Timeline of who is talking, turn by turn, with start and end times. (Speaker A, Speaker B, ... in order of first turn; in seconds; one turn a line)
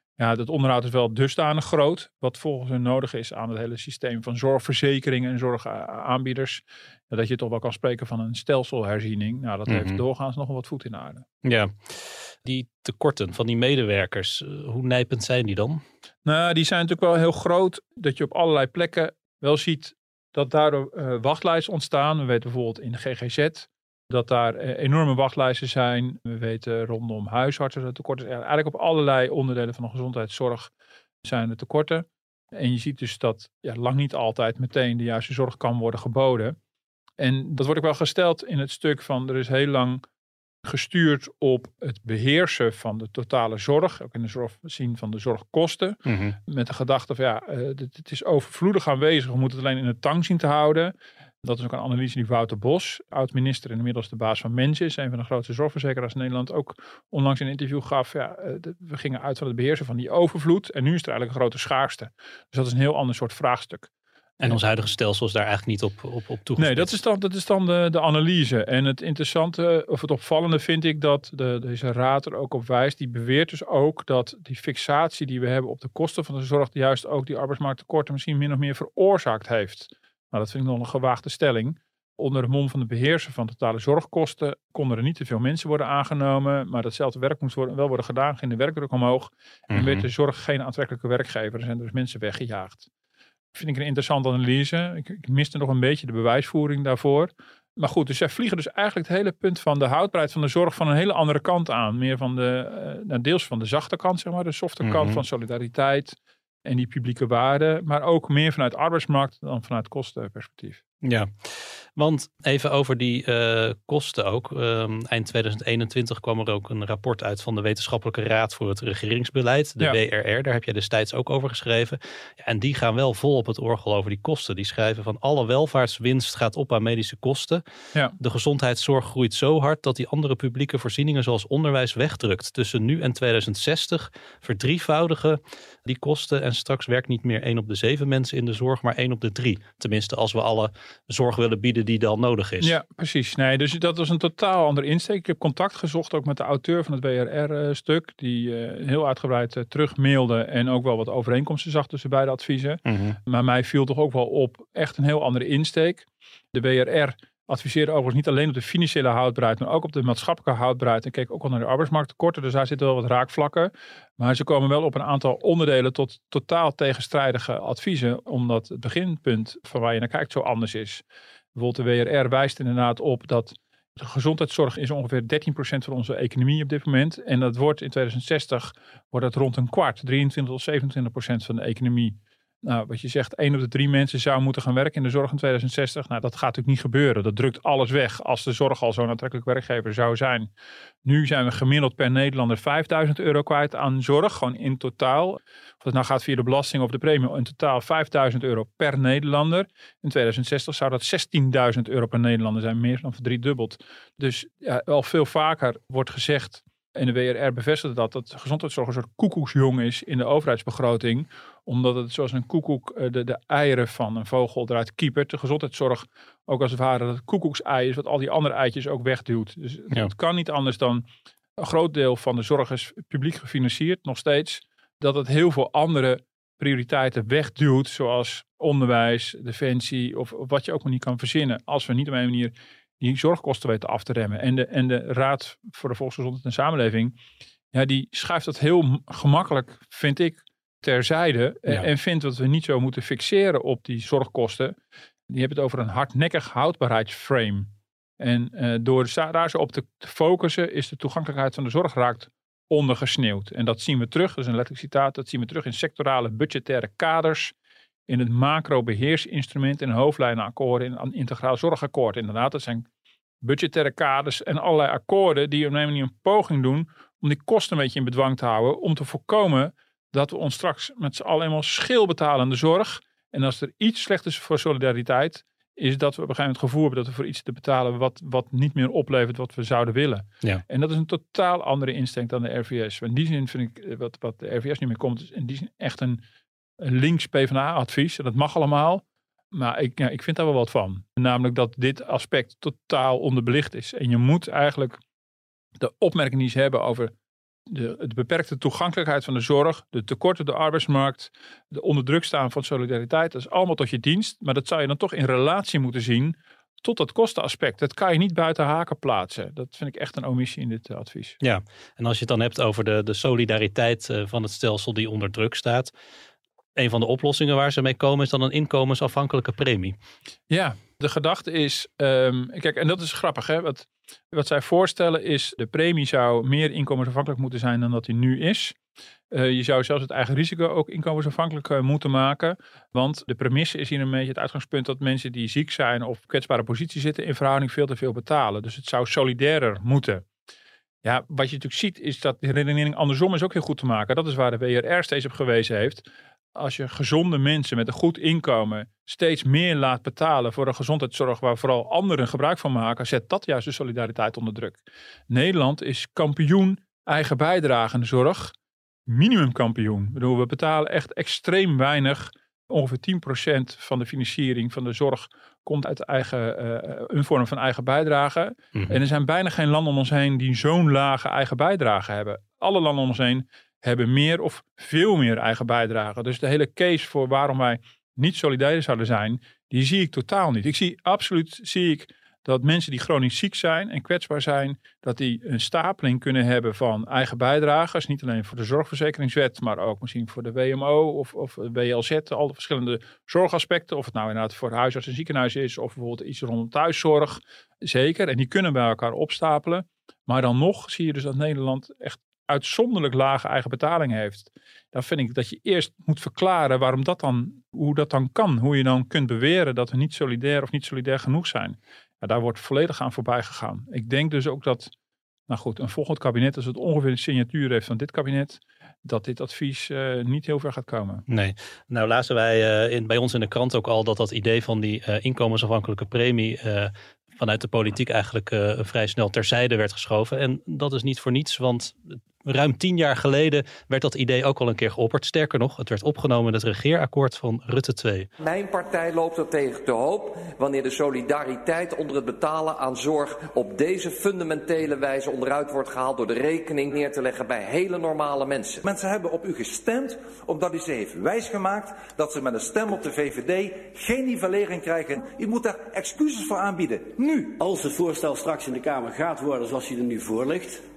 Speaker A: 0.2-11.2
Speaker B: 9.7-10.0
Speaker B: 11.4-15.8
Speaker A: 16.2-30.7
Speaker A: 31.2-36.6
Speaker A: 37.2-40.0
Speaker A: 40.6-63.9
Speaker B: 46.0-46.4
Speaker B: 64.4-67.0
Speaker A: 66.6-92.9
Speaker B: 89.7-90.1
Speaker A: 93.5-110.8
Speaker B: 104.8-105.2
Speaker B: 111.0-127.6
Speaker B: 128.2-142.7
Speaker A: 142.6-171.0
Speaker B: 152.9-153.2
Speaker A: 171.5-190.5
Speaker A: 191.0-237.2
Speaker A: 237.7-244.8
Speaker A: 245.3-257.5
Speaker A: 258.1-262.9
Speaker A: 263.4-286.2
Speaker A: 286.8-295.0
Speaker A: 295.8-297.1
Speaker A: 297.7-311.4
Speaker B: 311.4-315.9
Speaker B: 316.8-319.9
Speaker A: 320.5-328.8
Speaker A: 329.3-340.2
Speaker A: 341.0-358.5
Speaker A: 359.1-414.9
Speaker A: 415.5-421.2
Speaker B: 421.3-438.3
Speaker C: 438.4-448.8
Speaker D: 448.8-457.6
Speaker E: 457.6-460.8